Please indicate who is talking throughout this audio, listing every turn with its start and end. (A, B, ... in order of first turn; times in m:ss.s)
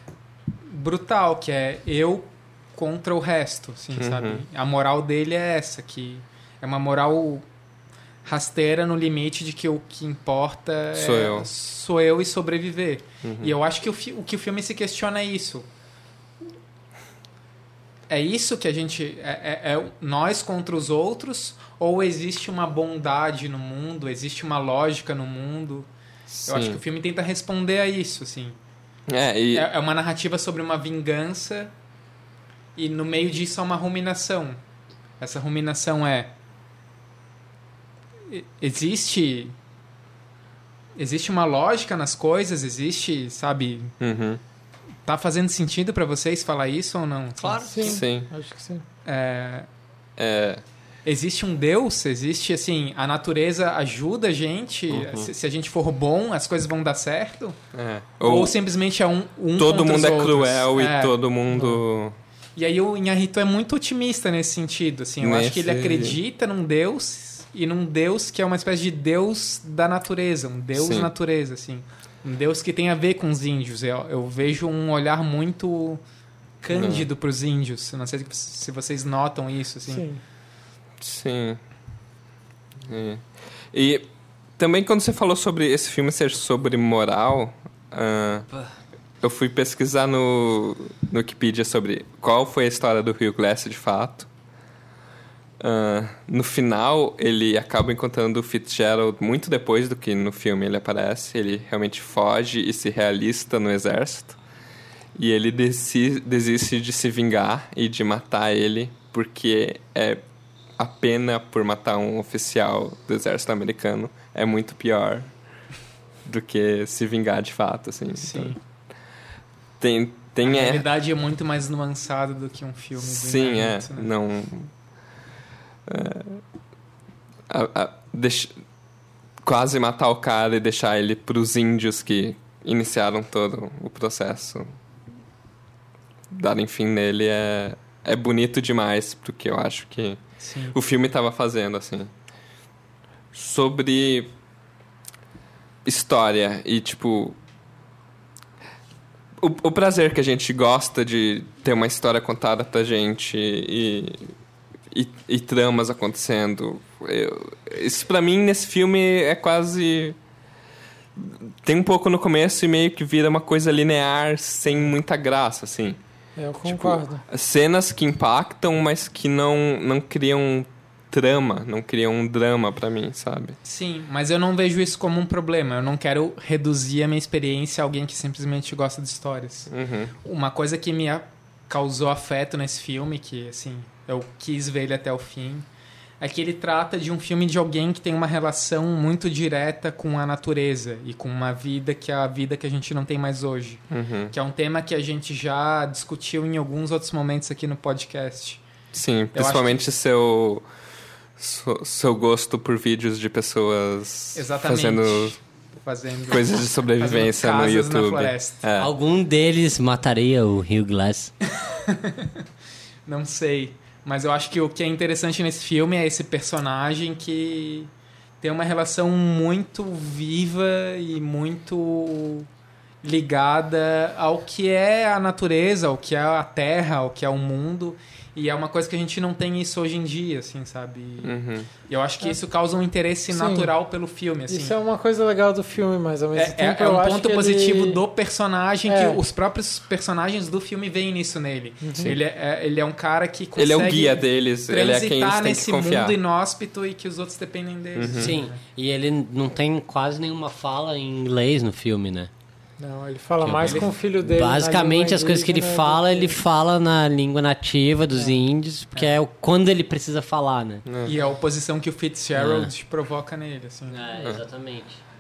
0:00.7-0:07.4 A
0:04.0-0:04.4 B
0:08.2-0:15.7 A
0:11.0-0:11.5 B
0:13.2-0:13.6 B
0:18.1-0:25.9 A
0:26.3-0:26.8 B
0:26.5-0:28.6 A
0:29.1-0:29.7 B
0:29.5-0:31.7 A
0:32.8-0:34.6 A
0:35.2-0:36.3 A
0:38.3-0:39.5 A
0:41.0-0:44.0 A
0:44.0-0:44.4 B
0:45.1-0:48.0 A
0:47.4-0:48.0 C
0:47.7-0:48.8 D
0:47.8-0:48.3 B
0:49.1-0:49.7 A
0:50.2-0:50.6 B
0:51.0-0:57.6 A
0:54.9-0:55.3 C
0:57.7-0:58.5 B
0:58.2-1:01.8 A
0:59.6-1:02.2 B
1:02.6-1:16.0 A
1:05.2-1:06.2 B
1:10.8-1:11.1 B
1:16.6-1:20.1 A
1:16.7-1:17.1 B
1:19.9-1:20.2 D
1:21.0-1:21.6 B
1:22.9-1:24.1 B
1:24.6-1:28.5 B
1:29.2-1:34.3 B
1:35.6-1:44.4 B
1:45.2-1:50.2 B
1:50.8-1:55.3 B
1:56.2-1:58.6 B
1:58.2-1:58.6 A
1:59.8-2:00.9 B
2:00.4-2:04.1 A
2:03.0-2:04.7 B
2:05.9-2:06.4 B
2:07.5-2:08.5 B
2:09.4-2:14.7 B
2:16.3-2:20.2 B
2:20.4-2:20.8 A
2:20.7-2:22.1 B
2:23.3-2:24.3 B
2:25.8-2:27.4 B
2:29.4-2:34.3 B
2:34.9-2:40.2 B
2:41.2-2:46.0 B
2:46.4-2:47.2 D
2:46.6-2:53.6 B
2:53.6-2:59.7 A
2:59.7-3:00.1 B
3:00.2-3:05.7 A
3:06.2-3:18.6 A
3:13.9-3:14.3 B
3:18.9-3:20.6 B
3:19.3-3:19.8 A
3:21.4-3:25.4 B
3:24.4-3:28.6 A
3:26.3-3:28.9 B
3:28.8-3:31.3 C
3:31.6-3:32.4 A
3:33.1-3:42.5 A
3:43.0-3:54.8 A
3:51.2-3:51.7 B
3:53.3-3:53.8 D
3:54.5-3:58.0 D
3:56.4-4:08.6 A
3:58.9-3:59.2 D
4:01.8-4:02.2 D
4:02.0-4:02.2 B
4:03.6-4:06.2 B
4:08.0-4:08.3 B
4:08.1-4:12.3 C
4:12.8-4:16.4 D
4:13.4-4:20.9 C
4:20.9-4:21.2 B
4:21.0-4:24.1 A
4:22.4-4:22.7 C
4:23.9-4:25.0 C